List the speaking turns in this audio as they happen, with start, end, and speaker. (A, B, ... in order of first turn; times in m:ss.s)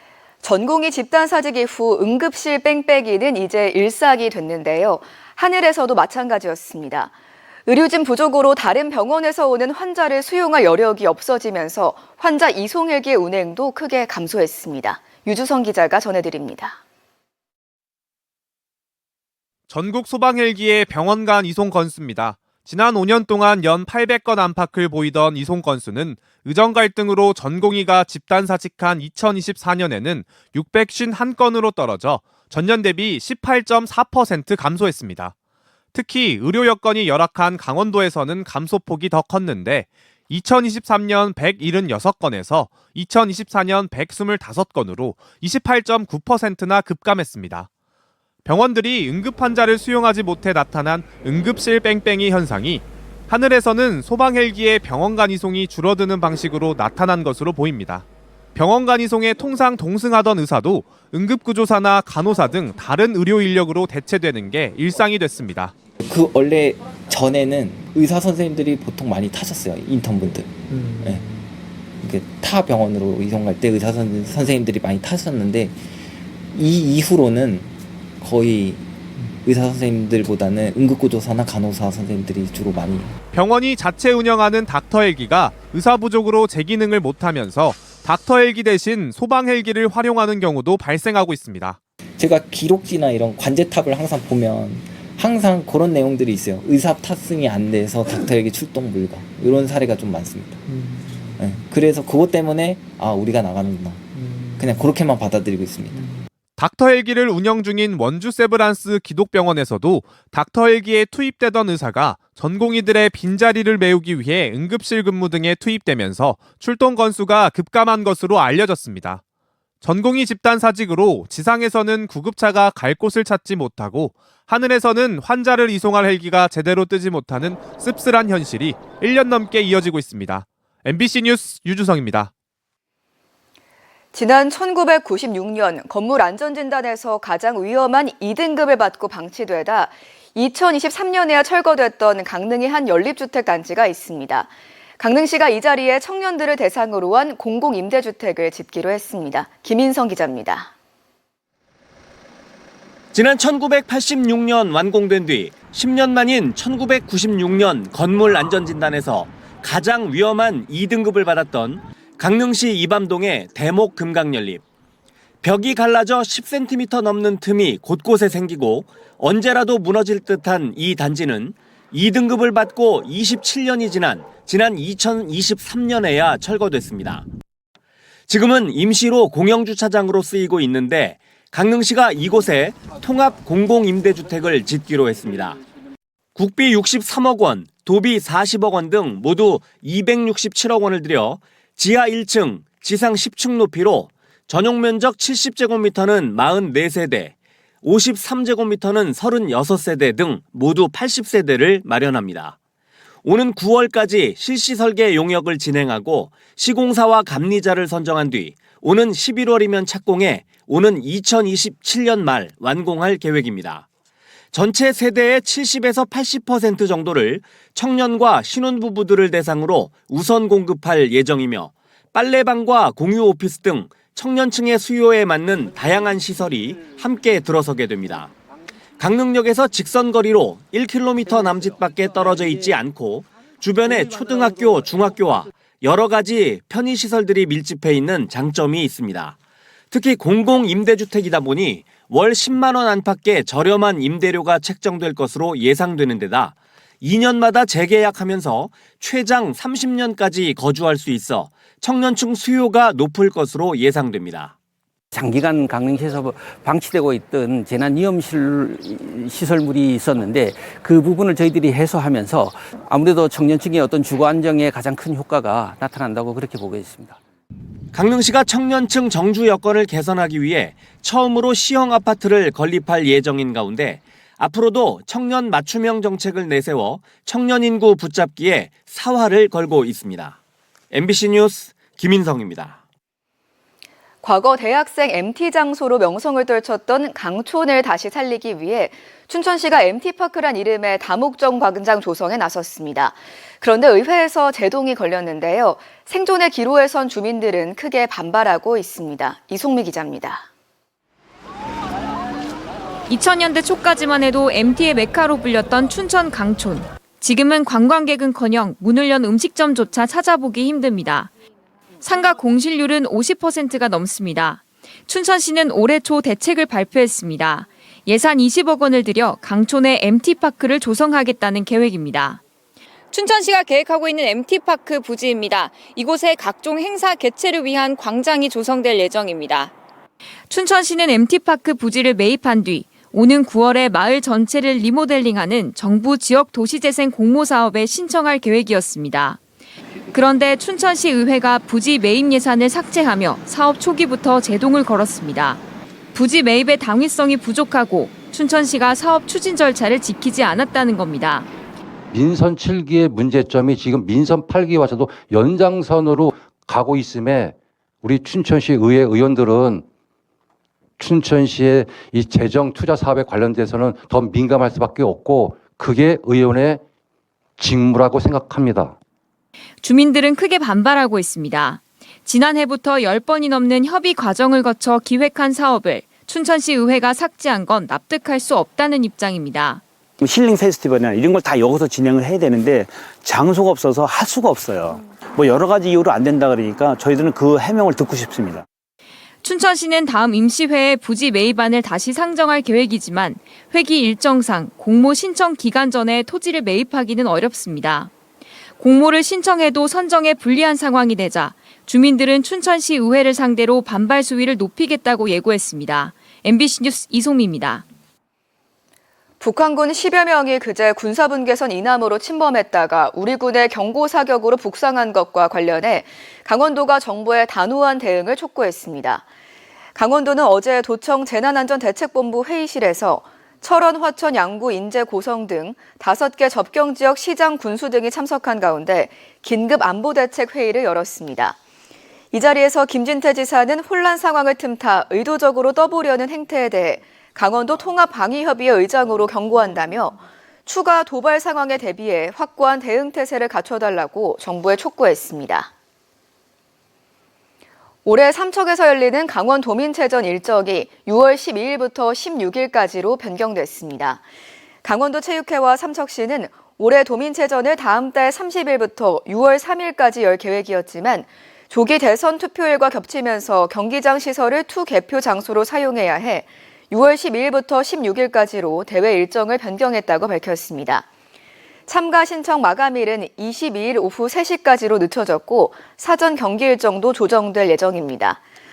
0:00.4-0:07.1 A
0:07.7-0:16.8 A
0:19.7-0:35.3 B
0:35.9-0:47.7 B
0:48.4-1:05.7 B
1:06.0-1:11.4 C
1:12.0-1:15.8 C
1:16.5-1:18.8 C
1:19.4-1:23.1 C
1:23.3-1:31.8 B
1:32.2-1:40.6 C
1:41.4-1:44.0 C
1:44.6-1:46.0 C
1:46.6-1:59.2 B
1:59.8-2:12.3 B
2:14.1-2:30.7 A
2:33.1-2:44.6 D
2:45.4-2:57.3 D
2:58.3-3:05.6 D
3:06.4-3:22.6 D
3:23.2-3:33.9 D
3:34.5-3:48.3 D
3:49.0-3:59.4 D
3:59.9-4:14.5 D
4:15.1-4:27.2 E
4:27.9-4:40.4 D
4:40.9-4:42.8 D
4:44.2-5:00.5 A
5:03.1-5:11.3 F
5:12.0-5:22.4 F
5:23.1-5:29.7 F
5:30.5-5:39.4 F
5:40.1-5:45.6 F
5:46.1-5:51.5 F
5:52.1-5:59.8 G
6:01.0-6:06.8 G
6:07.6-6:09.0 G
6:09.8-6:19.8 F
6:20.2-6:28.7 H
6:29.4-6:38.1 F
6:38.8-6:47.8 F
6:49.4-6:59.2 A
7:00.0-7:11.6 A
7:12.3-7:25.7 A
7:28.1-7:34.2 A
7:34.8-7:51.0 A
7:51.9-7:58.4 A